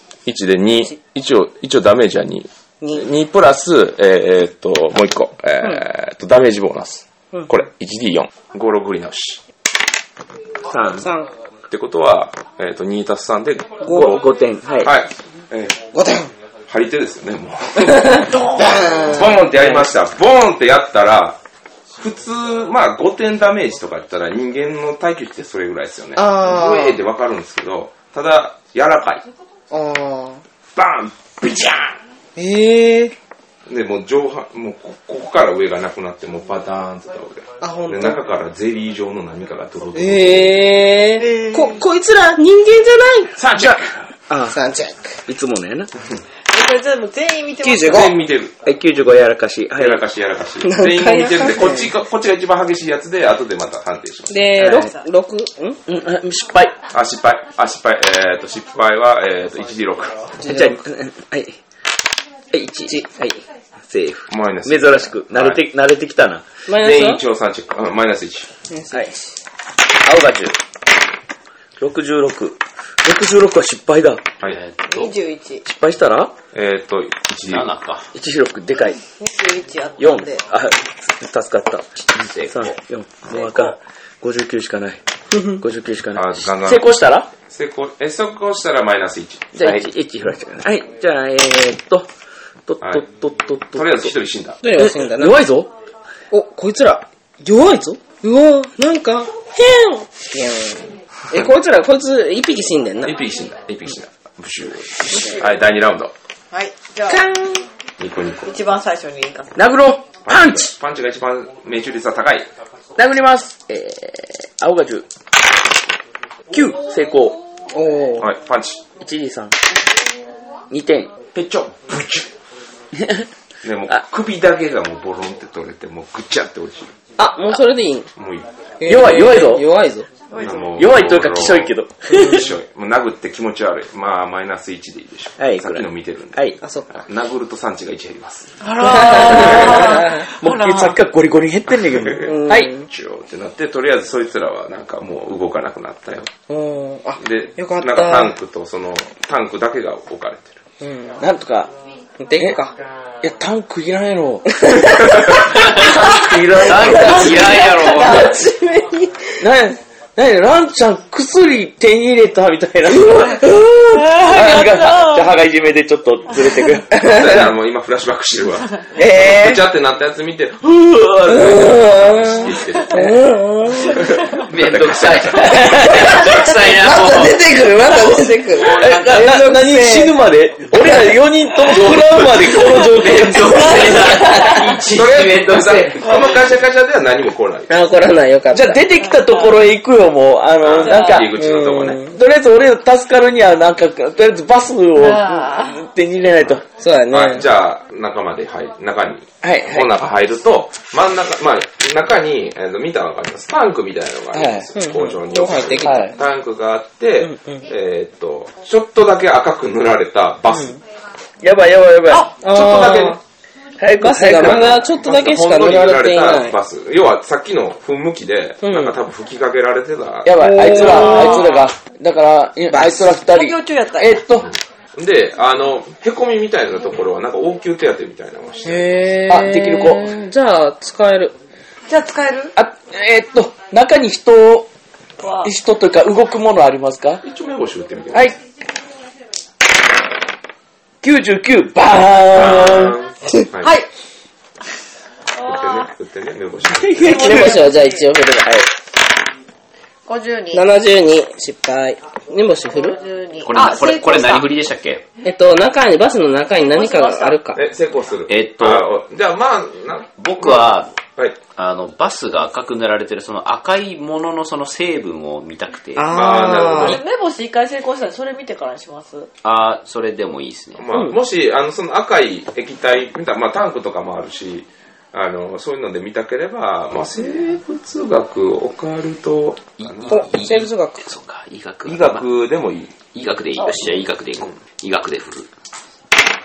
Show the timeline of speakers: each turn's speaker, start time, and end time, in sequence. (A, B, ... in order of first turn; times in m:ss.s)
0:00.3-0:09.4 A
0:10.7-0:11.1 B
0:11.0-0:11.3 C
0:11.7-0:14.2 A
0:13.8-0:14.1 C
0:13.8-0:14.9 B
0:14.8-0:15.8 A
0:15.9-0:16.3 C
0:16.7-0:21.4 A
0:18.0-0:19.4 C
0:22.0-0:29.3 A
0:26.2-0:27.0 C
0:29.7-0:30.4 C
0:30.8-0:32.0 A
0:32.4-0:33.2 C
0:33.7-0:40.7 A
0:37.6-0:38.2 C
0:39.9-0:43.3 C
0:41.2-0:41.8 D
0:43.4-0:43.8 A
0:43.5-0:44.6 B
0:44.5-0:45.2 C
0:45.3-0:45.9 B
0:46.5-0:48.2 D
0:47.6-0:48.1 C
0:47.8-0:48.6 A
0:48.6-0:50.0 B
0:49.8-0:54.4 A
0:50.6-0:51.9 C
0:54.3-0:55.8 C
0:54.6-0:54.9 B
0:54.6-0:55.1 D
0:55.9-0:56.8 B
0:56.9-1:00.3 A
1:00.4-1:00.8 C
1:00.4-1:01.6 B
1:02.5-1:06.5 B
1:04.3-1:05.6 A
1:06.7-1:07.2 C
1:06.7-1:08.5 A
1:08.7-1:09.4 C
1:10.0-1:10.6 B
1:11.8-1:14.2 B
1:14.4-1:15.2 E
1:14.9-1:15.6 D
1:15.6-1:16.3 B
1:16.5-1:17.7 A
1:17.5-1:18.1 E
1:18.1-1:19.0 B
1:19.2-1:20.4 D
1:20.0-1:27.3 B
1:22.2-1:22.8 E
1:23.3-1:23.7 D
1:26.1-1:29.7 A
1:29.6-1:32.1 B
1:32.7-1:34.2 B
1:32.8-1:33.1 A
1:33.7-1:34.6 A
1:34.6-1:35.5 C
1:34.7-1:35.7 B
1:36.3-1:43.2 C
1:43.0-1:46.1 A
1:46.5-1:47.3 D
1:47.1-1:47.6 C
1:48.0-1:48.5 A
1:48.4-1:49.6 D
1:49.6-1:50.7 B
1:50.2-1:52.5 A
1:53.0-1:55.1 B
1:56.5-1:57.4 B
1:57.7-1:58.3 C
1:58.2-1:58.8 A
1:59.0-1:59.6 B
2:00.7-2:01.1 B
2:01.3-2:02.3 A
2:03.0-2:03.3 B
2:03.6-2:07.0 A
2:07.2-2:08.1 C
2:08.2-2:08.5 A
2:08.8-2:10.1 C
2:08.9-2:09.6 B
2:10.3-2:10.7 D
2:10.4-2:20.0 A
2:10.8-2:12.4 B
2:15.4-2:16.6 B
2:16.6-2:17.0 C
2:18.6-2:21.0 D
2:18.8-2:20.3 C
2:19.3-2:22.7 B
2:21.9-2:26.3 A
2:22.2-2:22.8 C
2:26.5-2:28.3 C
2:27.2-2:30.6 A
2:30.8-2:31.2 C
2:31.2-2:31.7 B
2:32.2-2:32.8 C
2:33.2-2:38.1 B
2:34.6-2:35.4 C
2:35.5-2:36.0 E
2:36.6-2:38.4 E
2:36.9-2:39.3 C
2:37.8-2:38.4 D
2:39.4-2:47.0 B
2:44.0-2:45.2 D
2:46.9-2:47.5 C
2:47.0-2:53.1 A
2:49.0-2:49.6 B
2:50.9-2:52.1 B
2:51.3-2:54.0 C
2:53.8-2:55.6 A
2:54.4-2:57.4 E
2:55.5-2:56.0 B
2:55.6-3:00.2 C
2:58.6-3:04.7 B
3:01.9-3:06.2 E
3:04.9-3:07.7 A
3:07.7-3:08.8 C
3:08.5-3:11.4 B
3:09.0-3:09.5 D
3:10.6-3:12.0 A
3:10.9-3:11.2 D
3:11.3-3:12.2 C
3:12.0-3:16.6 B
3:15.0-3:15.8 D
3:16.8-3:17.5 C
3:17.1-3:30.8 A
3:19.4-3:20.0 B
3:24.3-3:24.7 B
3:24.8-3:26.2 C
3:25.8-3:26.2 B
3:27.2-3:27.6 C
3:30.5-3:30.8 C
3:31.4-3:32.3 B
3:32.1-3:32.6 D
3:32.4-3:33.2 C
3:32.4-3:33.2 A
3:33.8-3:34.8 B
3:34.0-3:36.6 C
3:34.3-3:41.1 A
3:38.6-3:39.0 C
3:40.2-3:44.5 B
3:40.4-3:41.6 C
3:41.1-3:41.6 D
3:42.7-3:43.1 C
3:43.0-3:44.2 D
3:44.4-3:49.0 A
3:48.7-3:51.4 C
3:49.3-3:50.2 B
3:51.9-3:52.5 D
3:52.6-3:54.7 B
3:55.2-3:55.5 D
3:55.4-3:57.2 B
3:57.2-3:58.3 A
4:01.0-4:03.0 B
4:02.3-4:03.7 A
4:03.6-4:03.9 D
4:05.4-4:05.9 D
4:05.4-4:07.3 A
4:06.7-4:07.7 B
4:07.0-4:08.7 C
4:07.0-4:08.0 D
4:10.1-4:10.6 D
4:10.5-4:13.0 C
4:12.7-4:14.5 D
4:13.4-4:15.0 E
4:15.2-4:17.6 C
4:16.6-4:17.4 D
4:17.5-4:21.4 A
4:18.3-4:18.9 E
4:20.2-4:20.9 E
4:21.6-4:26.1 E
4:26.0-4:27.0 C
4:26.1-4:27.0 A
4:26.5-4:29.3 D
4:29.4-4:30.8 E
4:30.8-4:40.2 A
4:39.8-4:42.3 E
4:40.1-4:41.0 C
4:41.8-4:43.0 A
4:43.1-4:45.5 E
4:43.6-4:43.9 D